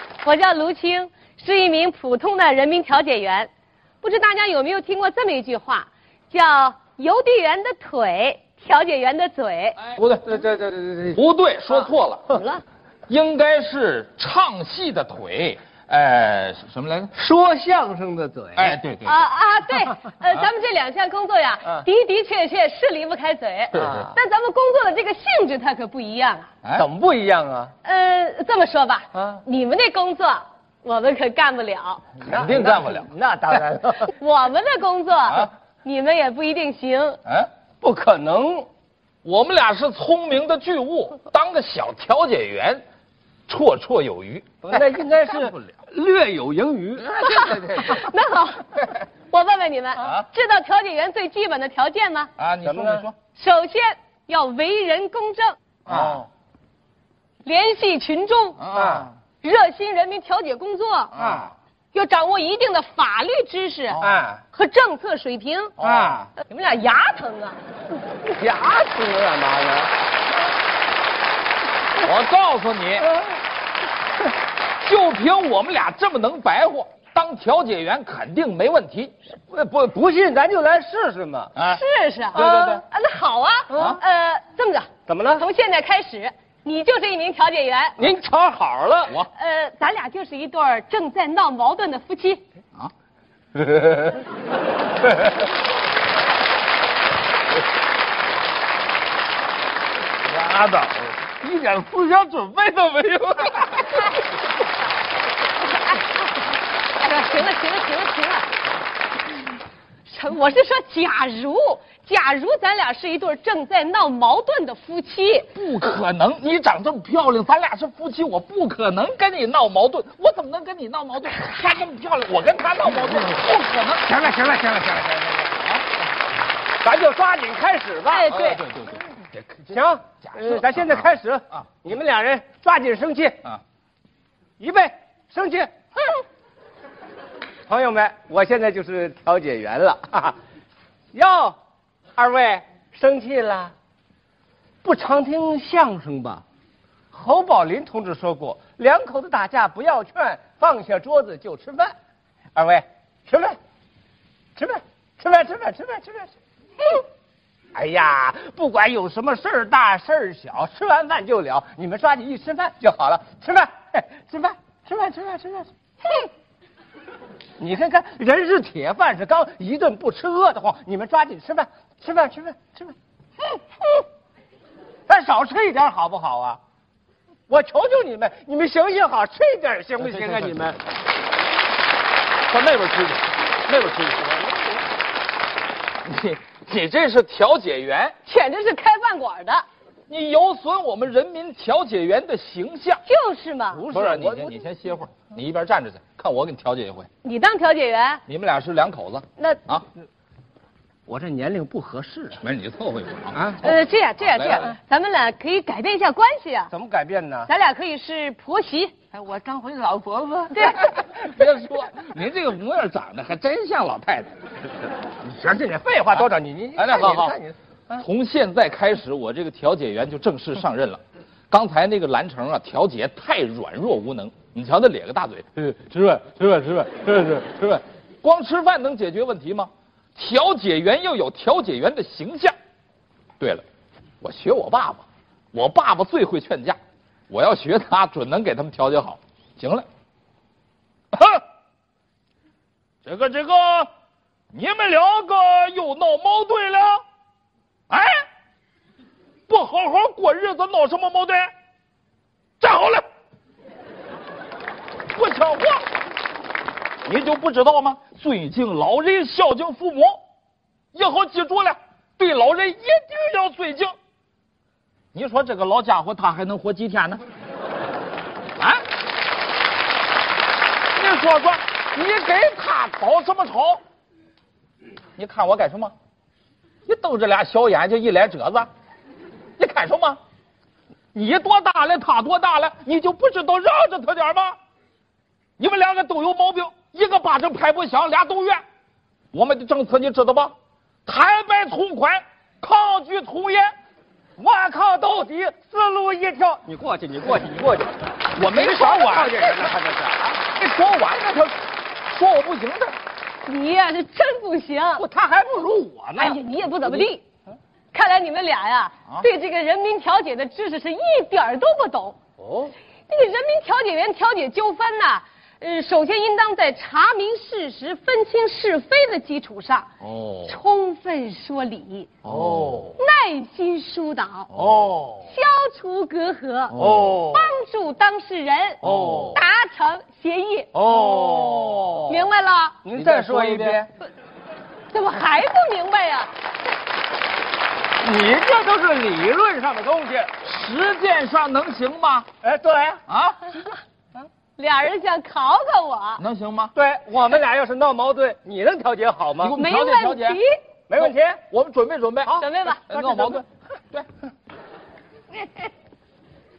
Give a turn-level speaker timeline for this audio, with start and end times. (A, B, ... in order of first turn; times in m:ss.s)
0:00.2-0:03.5 A
0:04.0-0:09.8 A
0:09.8-0:10.2 B
0:10.0-0:11.2 C
0:11.1-0:12.3 B
0:12.3-0:12.6 A
0:13.1-0:17.1 B
0:17.2-0:19.1 C
0:18.6-0:18.8 B
0:19.0-0:26.5 A
0:23.7-0:24.1 B
0:23.7-0:24.1 C
0:26.7-0:27.7 C
0:27.8-0:32.0 A
0:29.1-0:29.4 C
0:32.2-0:34.1 C
0:32.2-0:33.1 B
0:34.2-0:37.2 A
0:37.2-0:37.5 B
0:37.8-0:38.7 C
0:39.2-0:42.8 B
0:43.5-0:44.6 B
0:44.6-0:47.0 C
0:45.4-0:45.7 B
0:47.0-0:48.0 B
0:47.2-0:48.7 A
0:49.3-0:52.3 A
0:50.0-0:50.3 B
0:52.4-0:53.1 B
0:52.6-0:53.1 C
0:53.3-0:55.6 A
0:55.9-0:56.2 C
0:55.9-0:56.2 B
0:57.4-0:58.6 A
0:58.6-0:59.1 B
0:58.7-0:59.1 C
0:59.4-1:01.1 A
1:01.1-1:01.5 B
1:01.2-1:01.5 C
1:01.9-1:04.0 A
1:03.9-1:04.2 B
1:04.0-1:04.4 C
1:04.5-1:05.7 A
1:05.8-1:06.2 B
1:05.8-1:06.3 C
1:06.4-1:07.6 A
1:08.1-1:09.9 C
1:12.0-1:13.1 B
1:14.8-1:19.1 B
1:19.4-1:21.5 C
1:21.6-1:21.8 B
1:21.6-1:28.0 A
1:22.3-1:22.8 B
1:22.3-1:22.7 C
1:25.1-1:25.4 C
1:28.0-1:29.1 C
1:29.3-1:32.4 A
1:33.6-1:34.2 C
1:40.2-1:41.3 B
1:41.4-1:42.7 C
1:42.5-1:43.7 B
1:45.6-1:46.4 A
1:46.9-1:48.5 A
1:50.1-1:55.5 A
1:55.5-2:04.9 B
2:04.2-2:05.4 C
2:05.5-2:05.8 B
2:06.8-2:08.3 C
2:08.1-2:08.6 A
2:08.3-2:11.6 B
2:09.7-2:13.4 C
2:14.6-2:15.7 C
2:17.7-2:20.4 C
2:21.1-2:21.6 C
2:22.2-2:23.7 C
2:24.8-2:26.4 C
2:27.1-2:31.9 C
2:32.5-2:33.6 C
2:34.6-2:36.3 C
2:37.7-2:46.2 C
2:47.6-2:52.9 C
2:55.1-2:56.6 C
2:57.5-3:00.8 C
3:00.1-3:00.6 B
3:02.5-3:04.2 B
3:06.0-3:08.1 B
3:08.2-3:09.6 A
3:10.1-3:13.0 B
3:13.0-3:13.8 A
3:13.7-3:14.6 C
3:13.9-3:17.1 B
3:17.2-3:18.2 A
3:18.3-3:19.8 B
3:21.1-3:22.4 C
3:22.4-3:23.4 B
3:23.3-3:23.7 C
3:23.6-3:26.7 A
3:24.2-3:24.7 B
3:26.7-3:27.5 C
3:27.5-3:28.9 A
3:29.1-3:31.1 C
3:30.5-3:30.8 A
3:31.0-3:34.3 B
3:35.2-3:38.0 C
3:36.1-3:37.3 B
3:37.9-3:45.5 B
3:45.6-3:47.5 C
3:47.3-3:52.5 B
3:54.2-3:56.8 B
3:57.3-3:59.8 B
4:01.1-4:01.4 B
4:03.0-4:03.9 B
4:04.5-4:07.0 B
4:07.9-4:08.1 B
4:09.5-4:11.5 B
4:12.6-4:13.0 B
4:15.1-4:15.8 B
4:17.0-4:20.2 B
4:20.9-4:23.9 B
4:25.1-4:27.2 B
4:28.6-4:28.8 B
4:30.9-4:33.8 B
4:35.2-4:35.9 B
4:36.8-4:38.7 B
4:39.6-4:40.2 B
4:41.1-4:44.6 B
4:45.6-4:48.6 B
4:49.3-4:50.5 B
4:51.0-4:53.7 B
4:54.4-5:00.4 C
4:58.3-4:59.7 B
5:00.4-5:03.0 B
5:03.4-5:05.0 A
5:05.0-5:07.0 C
5:06.2-5:07.2 A
5:07.9-5:12.2 A
5:12.4-5:12.7 C
5:13.1-5:19.9 A
5:20.0-5:20.5 B
5:20.4-5:22.1 A
5:22.2-5:22.8 B
5:22.2-5:23.0 C
5:23.0-5:24.5 A
5:24.5-5:24.8 B
5:24.6-5:25.3 C
5:25.3-5:26.8 A
5:26.7-5:27.2 B
5:26.8-5:27.5 C
5:27.3-5:30.7 A
5:28.8-5:29.4 C
5:28.8-5:29.4 B
5:30.7-5:32.2 C
5:31.0-5:31.4 B
5:32.0-5:32.8 A
5:32.8-5:33.9 C
5:32.9-5:33.8 B
5:34.9-5:36.3 A
5:38.0-5:40.3 C
5:40.4-5:42.3 B
5:42.4-5:43.0 C
5:43.1-5:43.5 B
5:44.6-5:46.2 A
5:46.2-5:46.7 B
5:46.8-5:49.6 C
5:49.4-5:50.4 B
5:49.6-5:50.6 A
5:50.9-5:51.4 C
5:51.0-5:54.1 B
5:52.2-5:53.4 C
5:52.3-5:52.9 A